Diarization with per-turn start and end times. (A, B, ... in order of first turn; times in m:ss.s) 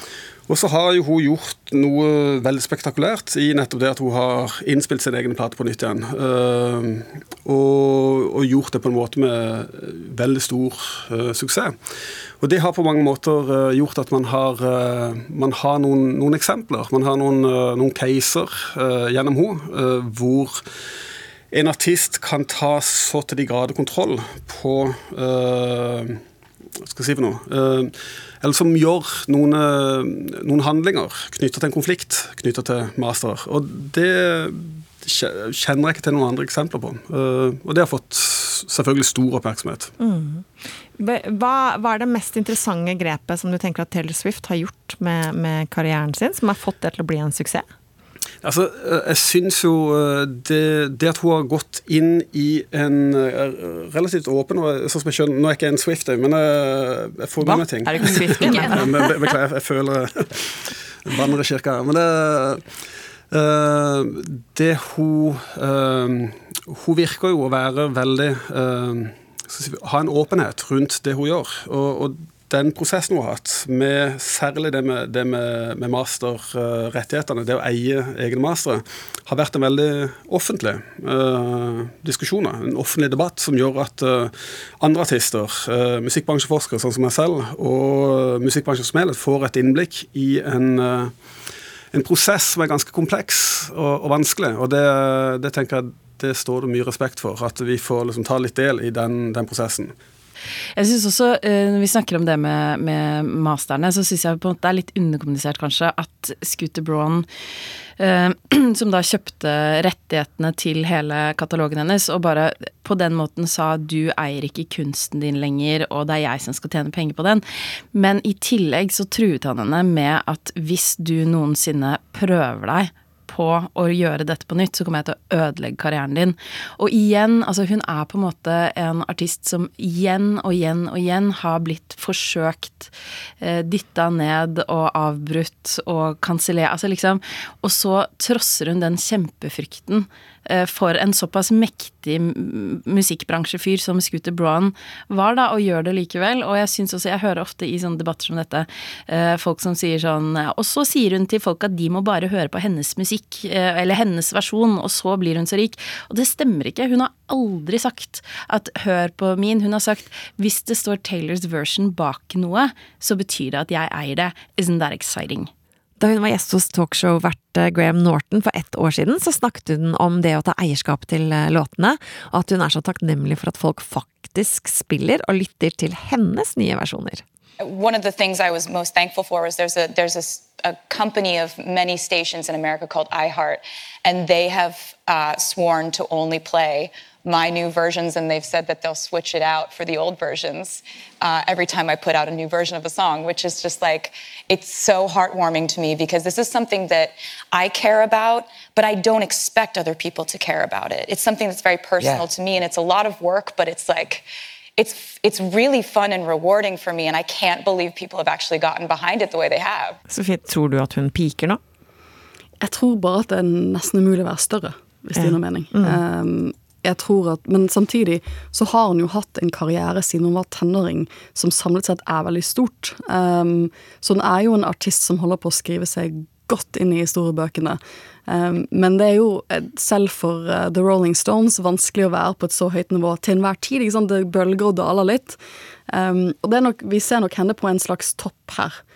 0:00.5-0:11.8 A
0:12.4-0:20.6 A
0:21.5-0:26.2 A
0:26.8-0:39.9 A
0:40.0-0:47.7 B
0:48.4-1:00.5 A
0:57.4-0:59.1 B
1:01.0-1:02.6 A
1:03.3-1:31.1 A
1:31.9-1:39.9 A
1:40.8-1:47.3 C
1:48.0-2:45.5 C
2:46.0-2:57.2 B
2:57.6-3:24.2 D
3:24.8-3:30.0 D
3:30.1-3:31.6 B
3:32.6-3:58.8 E
3:35.1-3:36.0 B